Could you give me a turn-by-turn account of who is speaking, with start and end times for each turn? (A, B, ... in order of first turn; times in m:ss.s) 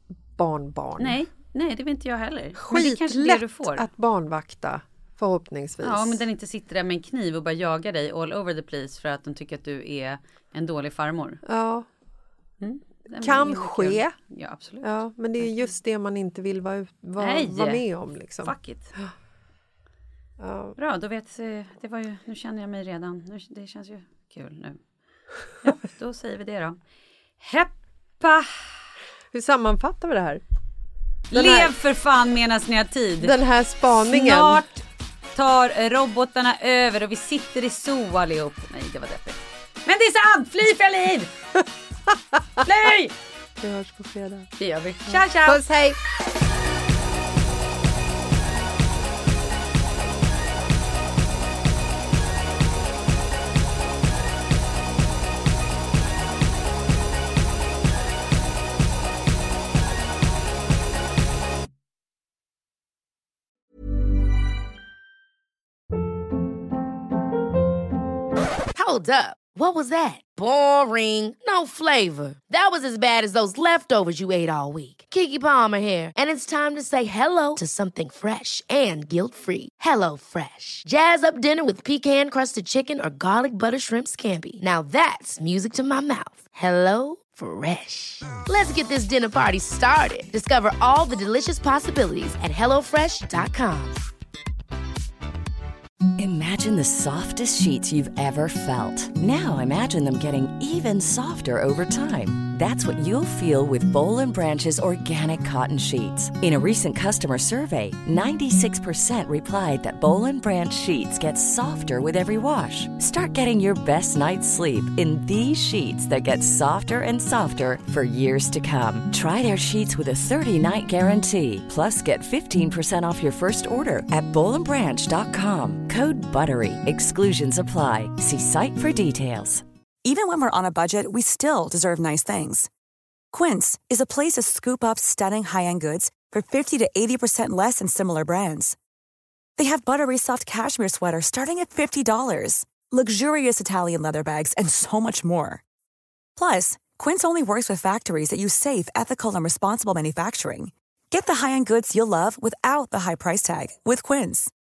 0:00.4-0:01.2 A
0:01.0-0:03.9 B
0:02.6-0:06.2 A
0:05.8-0:11.4 B
0:11.4-0:11.8 A
0:12.6-0:15.7 B
0:13.2-0:14.1 A
0:14.8-0:19.0 A
0:17.2-0:17.8 B
0:18.4-0:18.9 B
0:20.4-0:20.8 A
0:20.8-0:24.8 B
0:25.6-0:26.8 B
0:27.4-0:28.6 B
0:29.3-0:30.4 A
0:31.3-0:31.7 A
0:31.3-0:33.3 B
0:33.2-0:34.6 A
0:33.9-0:34.8 B
0:35.3-0:41.3 B
0:42.6-0:43.1 B
0:43.6-0:44.5 A
0:44.6-0:45.6 B
0:45.1-0:46.0 A
1:08.7-1:34.0 C
1:36.2-2:09.6 D
2:10.0-2:12.7 E
2:13.3-2:18.8 E
2:19.6-2:25.6 E
2:26.4-2:34.5 E